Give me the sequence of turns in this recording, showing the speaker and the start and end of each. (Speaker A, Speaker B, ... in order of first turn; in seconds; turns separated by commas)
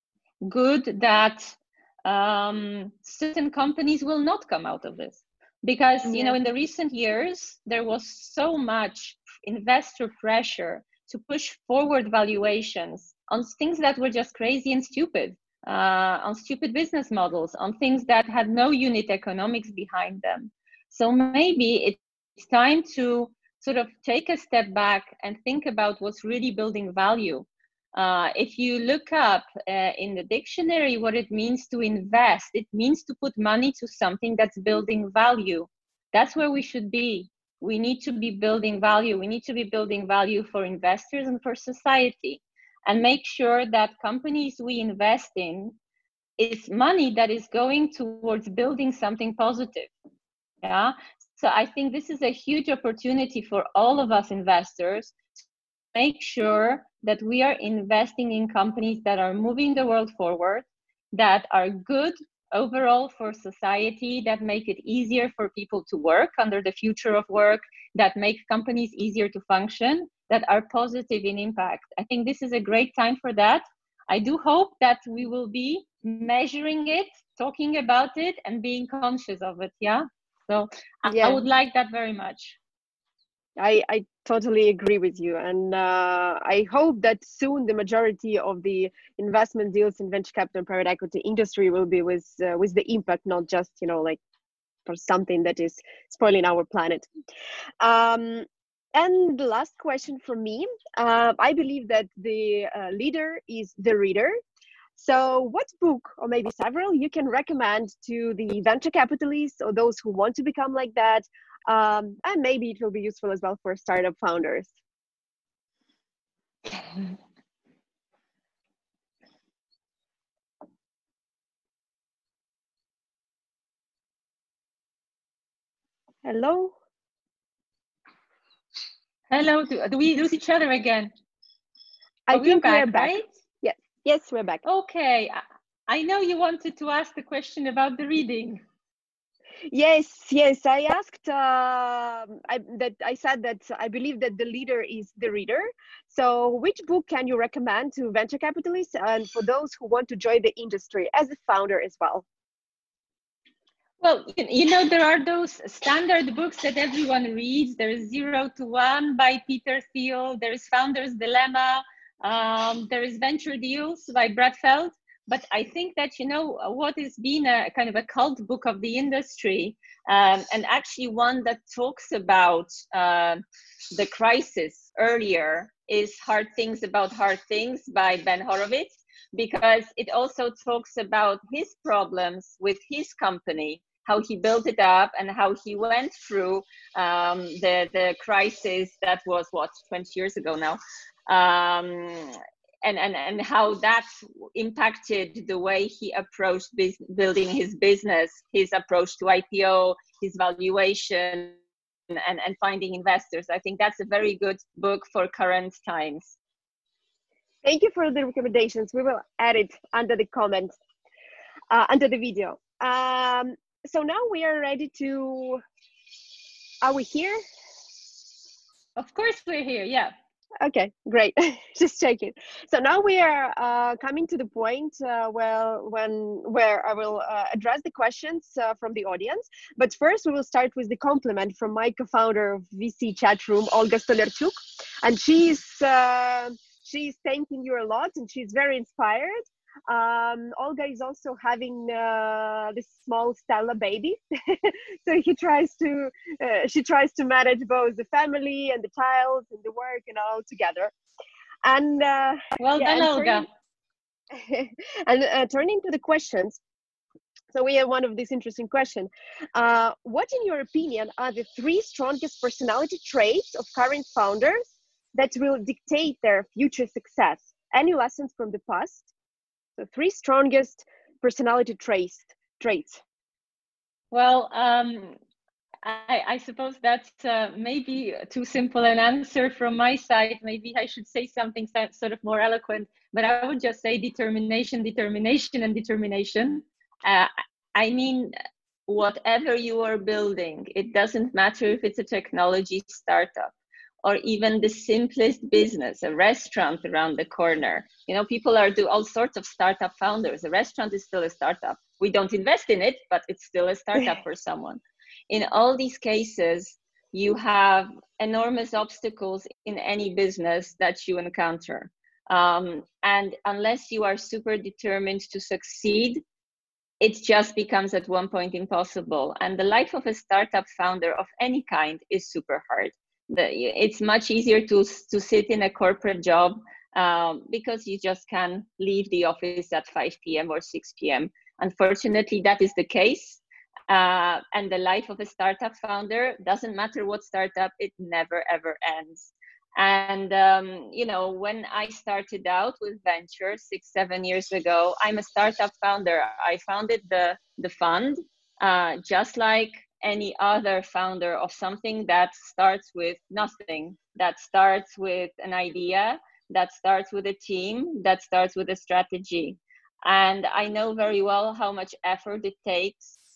Speaker A: 0.4-45.8, Speaker B: 6.0-6.4, Speaker A: 46.4-49.9, Speaker A: 50.6-55.2, Speaker A: 55.9-82.6, Speaker B: 81.1-81.4, Speaker B: 83.6-94.2, Speaker B: 94.9-97.1, Speaker B: 97.8-104.4, Speaker B: 105.0-114.7, Speaker B: 126.2-126.7, Speaker A: 129.3-131.1, Speaker B: 132.3-134.6, Speaker A: 132.3-133.3, Speaker A: 134.7-138.6, Speaker B: 139.7-152.2, Speaker A: 154.0-173.4, Speaker A: 173.9-201.6, Speaker A: 202.1-206.4, Speaker B: 207.6-210.8, Speaker B: 211.7-215.6, Speaker B: 216.8-217.4, Speaker A: 219.0-220.1, Speaker B: 220.6-250.9, Speaker B: 251.6-253.5, Speaker A: 252.6-253.5, Speaker B: 254.3-256.6, Speaker B: 257.5-269.1, Speaker B: 269.8-273.0, Speaker A: 274.1-275.1, Speaker A: 275.8-288.3, Speaker A: 288.9-293.5, Speaker A: 294.0-316.2, Speaker A: 317.0-363.2